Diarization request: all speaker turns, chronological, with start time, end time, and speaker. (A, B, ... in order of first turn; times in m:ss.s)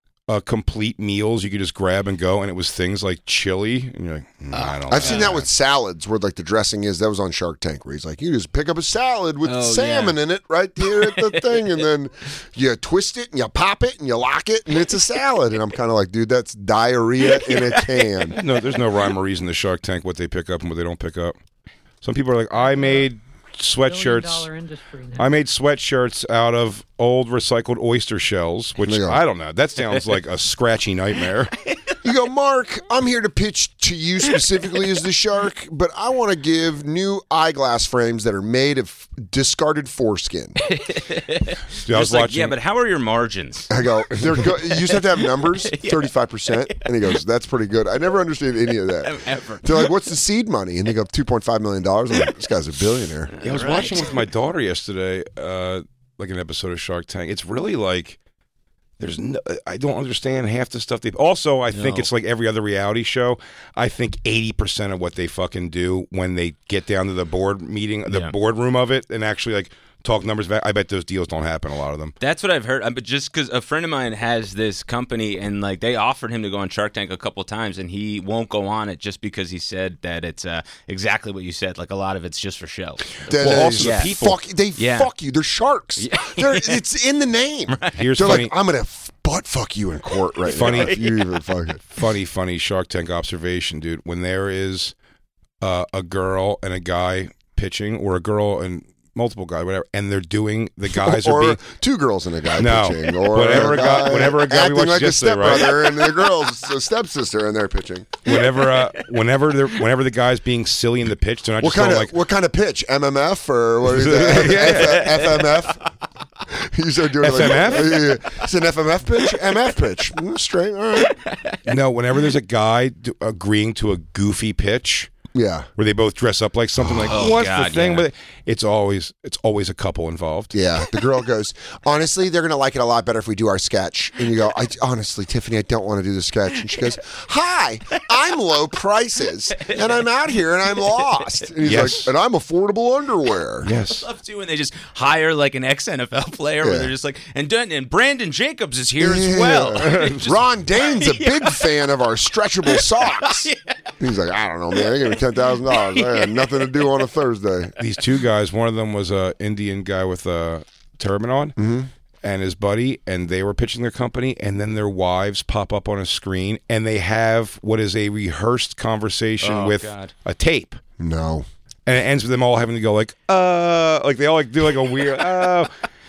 0:00.3-0:05.5 A
0:04.5-0:05.4 B
0:04.9-0:18.4 C
0:09.4-0:10.2 B
0:10.9-0:11.8 B
0:17.3-0:18.6 B
0:18.3-0:21.4 A
0:22.0-0:24.6 A
0:25.1-0:31.6 A
0:28.8-0:29.2 C
0:32.0-0:40.6 C
0:40.7-0:47.0 B
0:41.9-0:42.6 A
0:43.7-0:53.3 C
0:48.9-0:49.9 B
0:53.3-0:54.2 B
0:53.4-0:58.2 A
0:59.0-1:12.1 A
1:01.7-1:02.1 B
1:08.1-1:08.3 B
1:12.2-1:24.2 B
1:23.3-1:31.8 C
1:23.4-1:24.4 A
1:24.8-1:25.1 B
1:26.0-1:26.8 B
1:27.7-1:28.4 B
1:28.0-1:28.5 A
1:30.5-1:31.3 B
1:30.5-1:31.0 A
1:31.9-1:34.9 A
1:35.6-1:41.6 A
1:40.9-1:48.3 C
1:42.6-1:45.9 A
1:48.2-1:52.1 A
1:48.3-1:49.0 B
1:51.6-1:55.8 C
1:53.9-1:55.2 A
1:54.6-1:55.8 B
1:56.5-2:01.2 C
1:57.2-1:58.1 A
2:01.2-2:01.6 B
2:01.6-2:05.1 A
2:05.3-2:05.7 C
2:05.8-2:10.5 A
2:06.8-2:07.4 C
2:07.1-2:08.1 B
2:10.5-2:23.7 C
2:19.6-2:20.0 B
2:20.8-2:21.1 B
2:21.6-2:22.1 A
2:23.6-2:24.0 A
2:23.9-2:31.8 B
2:26.6-2:26.9 C
2:29.0-2:37.8 C
2:29.8-2:30.3 A
2:32.7-2:33.9 B
2:34.8-2:36.9 B
2:37.8-2:41.5 A
2:41.6-2:41.9 C
2:42.2-2:50.8 A
2:49.4-2:50.1 B
2:51.0-2:51.5 C
2:51.8-2:55.7 A